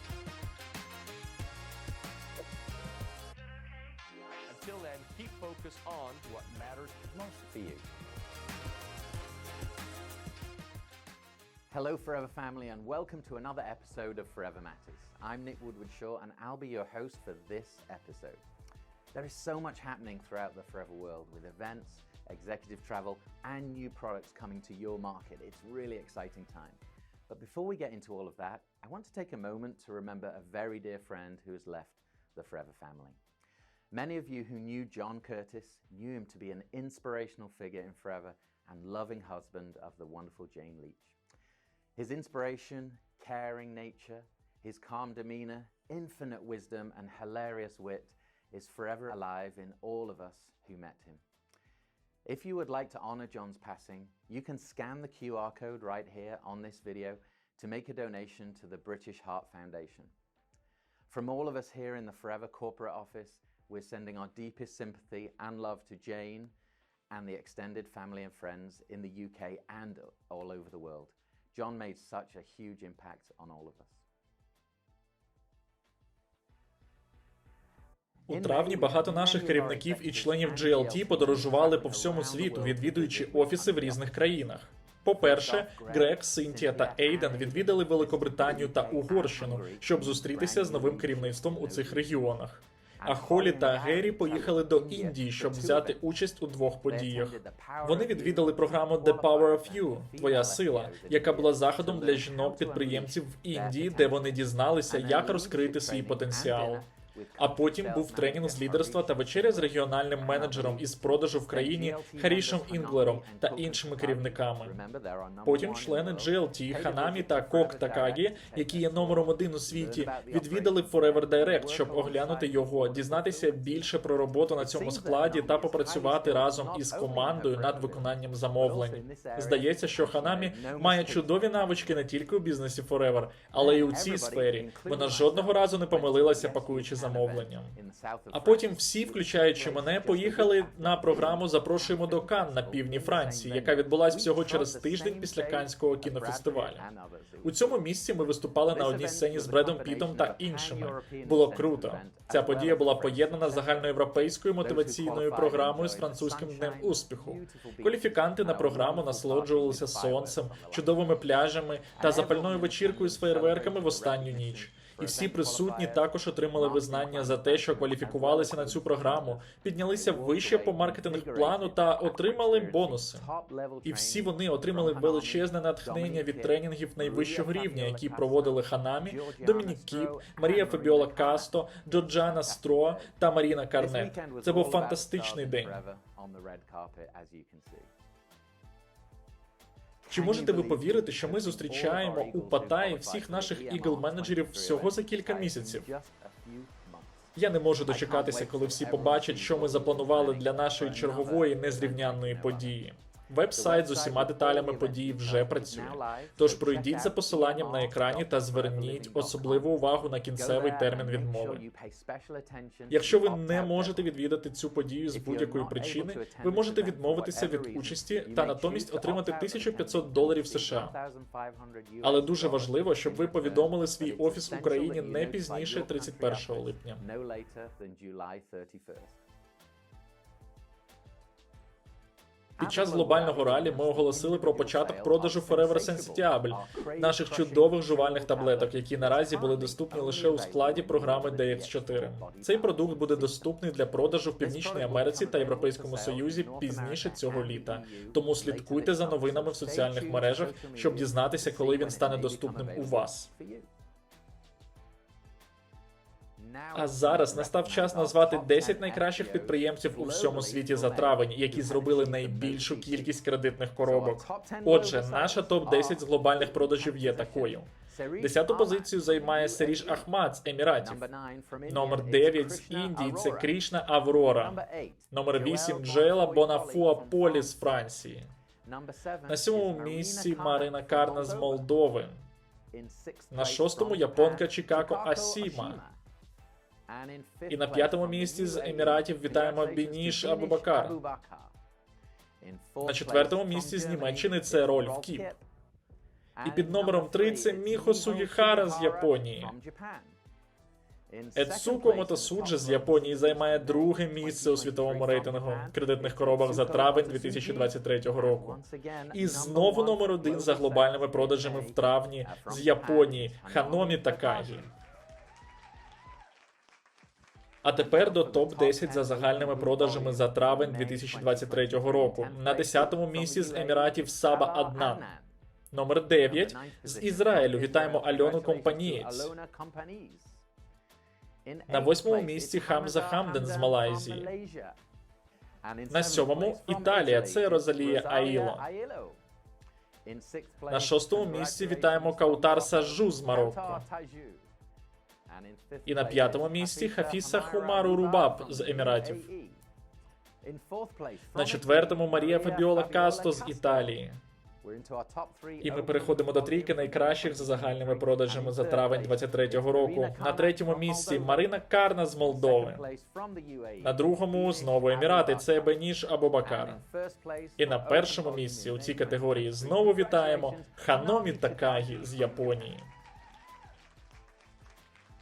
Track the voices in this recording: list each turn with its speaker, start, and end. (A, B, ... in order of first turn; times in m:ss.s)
0:04.5-0:07.5 A
0:07.5-0:07.8 B
0:11.7-0:18.4 B
0:19.1-0:33.2 B
0:33.9-0:41.2 B
0:42.0-0:51.2 B
0:52.2-1:00.1 B
1:01.1-1:06.5 B
1:07.1-1:14.0 B
1:18.3-1:24.3 B
1:18.3-1:46.8 C
1:25.1-1:32.3 B
1:33.0-1:36.0 B
1:36.8-2:03.9 B
1:47.4-1:54.8 C
1:55.4-2:17.7 C
2:04.5-2:12.1 B
2:13.5-2:27.9 B
2:18.3-2:26.8 C
2:27.4-2:53.3 C
2:28.7-2:41.4 B
2:42.0-3:03.2 B
2:53.8-3:05.8 C
3:03.7-3:07.9 B
3:10.0-3:22.8 B
3:10.1-3:15.9 C
3:17.4-3:31.6 C
3:23.5-3:34.1 B
3:32.9-3:40.9 C
3:35.1-3:49.2 B
3:42.0-3:47.0 C
3:52.6-4:03.6 B
3:52.6-4:13.3 C
4:04.4-4:13.7 B
4:16.4-4:23.2 B
4:16.7-4:31.0 C
4:23.8-4:30.1 B
4:30.8-4:33.6 B
4:31.6-4:34.6 C
4:34.4-4:37.8 B
4:35.1-4:38.3 C
4:38.6-4:41.7 B
4:39.3-4:42.2 C
4:42.7-4:46.0 B
4:43.3-4:45.8 C
4:46.9-4:51.5 B
4:47.5-4:51.0 C
4:52.4-4:55.4 B
4:52.8-4:55.3 C
4:56.4-5:00.2 B
4:56.4-4:59.5 C
5:01.1-5:14.7 B
5:01.3-5:08.6 C
5:09.1-5:14.7 C
5:17.6-5:25.0 C
5:17.8-5:25.3 B
5:25.7-5:29.3 C
5:26.2-5:30.4 B
5:31.4-5:34.8 B
5:31.7-5:34.3 C
5:35.6-5:39.2 B
5:35.9-5:38.6 C
5:40.0-5:44.5 B
5:40.7-5:43.8 C
5:45.3-5:49.6 B
5:45.8-5:49.3 C
5:50.4-5:54.0 B
5:51.3-5:54.2 C
5:54.6-6:05.8 B
5:55.6-6:02.9 C
6:03.8-6:06.8 C
6:06.4-6:12.7 B
6:07.6-6:12.9 C